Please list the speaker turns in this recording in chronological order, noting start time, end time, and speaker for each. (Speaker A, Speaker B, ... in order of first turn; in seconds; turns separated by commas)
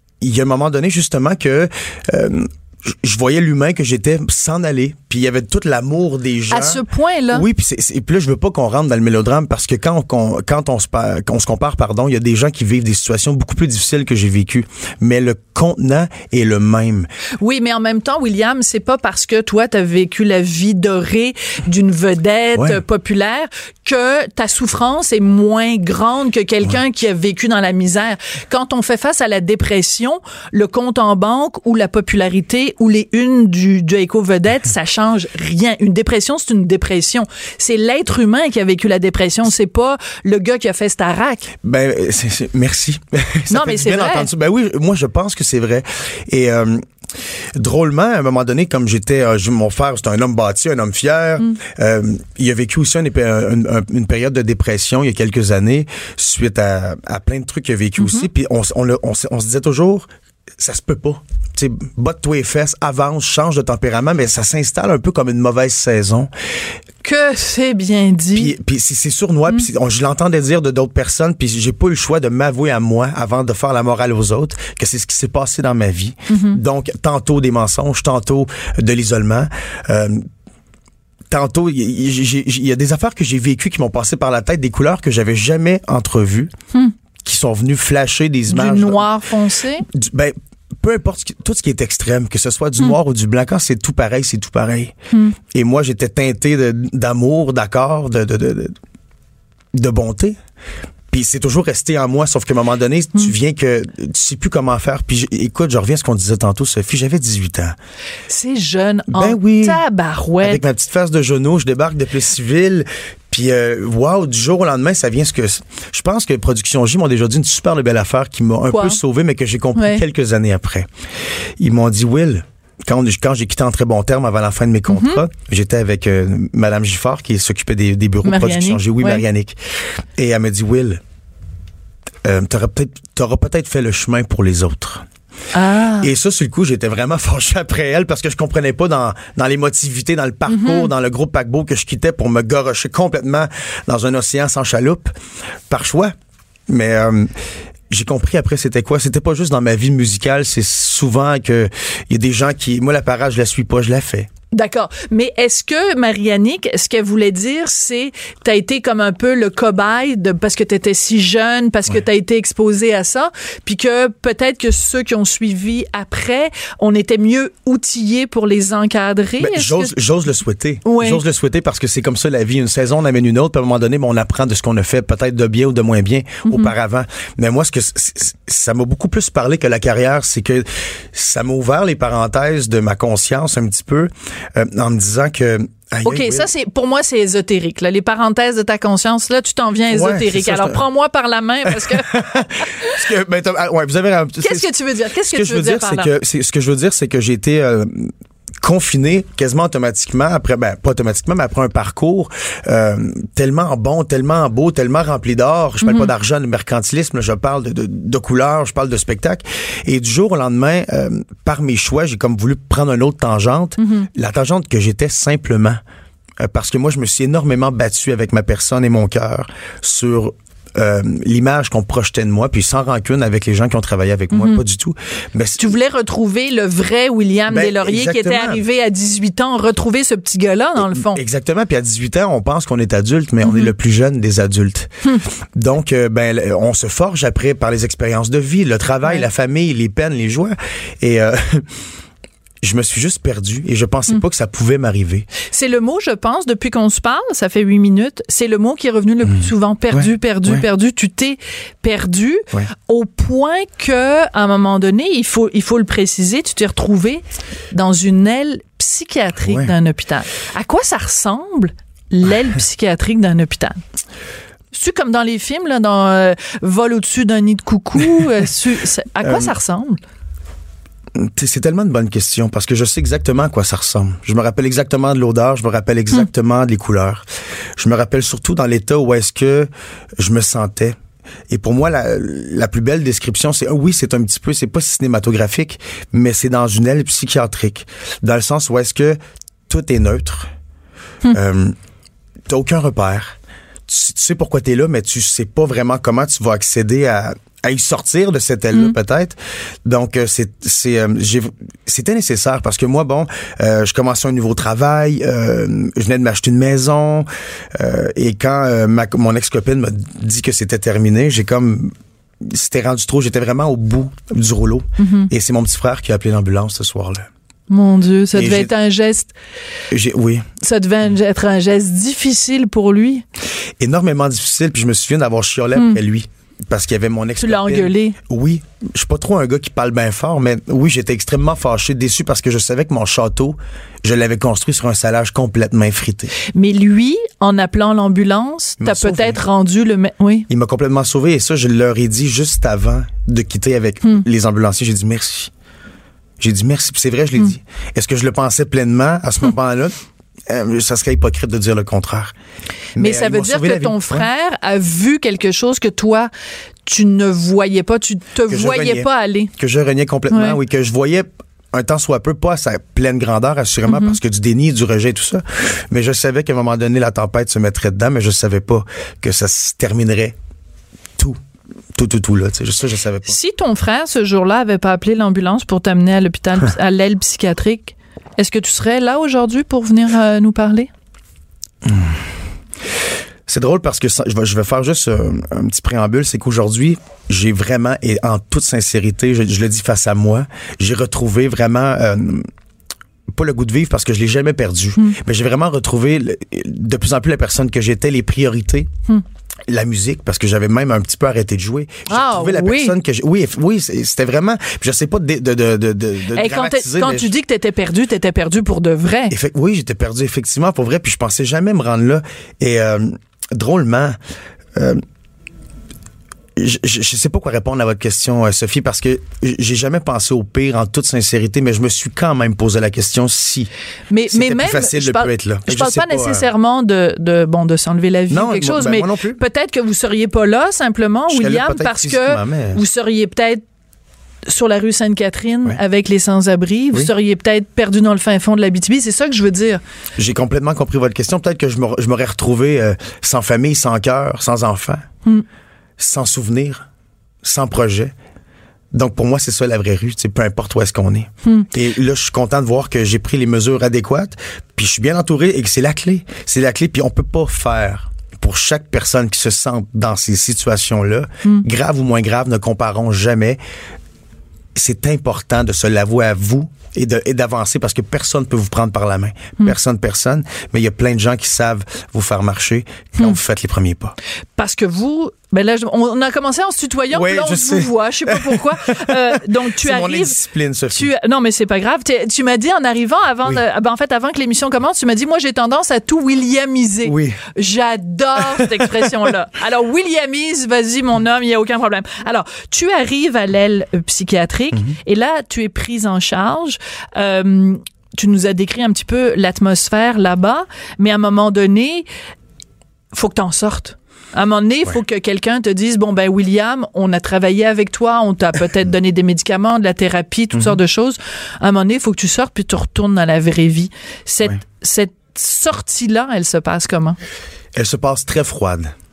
Speaker A: 0.2-17.1, Speaker B: 6.5-7.4, Speaker B: 17.4-41.5, Speaker A: 22.5-22.8, Speaker A: 41.6-46.8, Speaker B: 43.5-44.3, Speaker A: 47.5-66.3, Speaker B: 58.0-58.3, Speaker B: 67.0-68.5, Speaker A: 68.3-80.2, Speaker B: 76.3-76.6, Speaker A: 81.3-86.5, Speaker A: 87.2-89.1, Speaker B: 88.5-89.9, Speaker A: 89.9-94.9, Speaker A: 95.5-98.7, Speaker A: 99.7-100.4, Speaker A: 101.1-107.8, Speaker B: 108.3-110.6, Speaker A: 109.1-109.8, Speaker A: 110.4-120.9, Speaker B: 118.7-119.0, Speaker B: 119.8-120.0, Speaker A: 121.6-129.6, Speaker B: 124.9-125.2, Speaker B: 128.2-129.2, Speaker A: 130.2-131.0, Speaker A: 132.2-135.0, Speaker B: 135.5-136.1, Speaker A: 136.0-145.1, Speaker B: 140.5-140.9, Speaker A: 145.7-146.1, Speaker A: 146.7-147.3, Speaker A: 147.9-154.3, Speaker B: 154.5-169.9, Speaker A: 169.4-186.5, Speaker B: 170.8-171.2, Speaker B: 176.4-176.7, Speaker B: 186.0-192.9, Speaker A: 189.9-190.8, Speaker A: 191.7-215.8, Speaker B: 194.4-196.1, Speaker B: 205.8-206.1, Speaker B: 213.8-214.1, Speaker A: 216.4-225.7, Speaker B: 224.3-224.6, Speaker B: 225.6-231.2, Speaker A: 227.5-228.6, Speaker A: 230.8-234.9, Speaker B: 233.4-233.7, Speaker A: 235.5-241.7, Speaker A: 242.6-245.3, Speaker B: 245.5-263.8, Speaker A: 249.3-250.6, Speaker A: 259.4-259.7, Speaker B: 264.7-270.0, Speaker A: 269.2-269.5, Speaker A: 271.1-277.2, Speaker A: 277.8-281.0, Speaker A: 281.5-290.5, Speaker A: 291.3-291.8, Speaker A: 292.5-317.3, Speaker B: 315.0-315.3, Speaker B: 317.7-319.3, Speaker A: 318.3-318.7, Speaker A: 319.9-320.4, Speaker B: 320.6-323.2, Speaker A: 323.8-336.3, Speaker B: 327.4-328.2, Speaker B: 336.5-340.5, Speaker A: 338.8-339.4, Speaker A: 340.5-345.5, Speaker A: 346.4-352.3, Speaker A: 352.9-354.3, Speaker B: 353.0-356.3, Speaker B: 356.9-359.5, Speaker A: 358.5-370.4, Speaker B: 360.3-360.6, Speaker B: 363.9-364.2, Speaker A: 371.9-373.4, Speaker B: 373.2-380.9, Speaker A: 381.8-382.2, Speaker A: 383.5-392.5, Speaker A: 393.3-398.9, Speaker A: 399.7-407.3, Speaker B: 402.1-402.9, Speaker B: 406.3-409.3, Speaker A: 409.3-414.2, Speaker A: 414.7-415.0, Speaker A: 416.6-423.7, Speaker B: 424.1-433.6, Speaker A: 424.3-426.5, Speaker A: 428.3-429.4, Speaker A: 431.3-432.8, Speaker B: 434.5-439.8, Speaker A: 440.2-445.1, Speaker A: 446.0-446.9, Speaker A: 447.4-448.1, Speaker A: 448.9-463.6, Speaker A: 464.7-474.1, Speaker B: 474.6-480.4, Speaker A: 477.1-481.1, Speaker B: 480.9-502.1, Speaker A: 487.0-487.4, Speaker A: 488.5-488.9, Speaker B: 503.1-517.2, Speaker A: 510.5-510.8, Speaker A: 517.7-518.9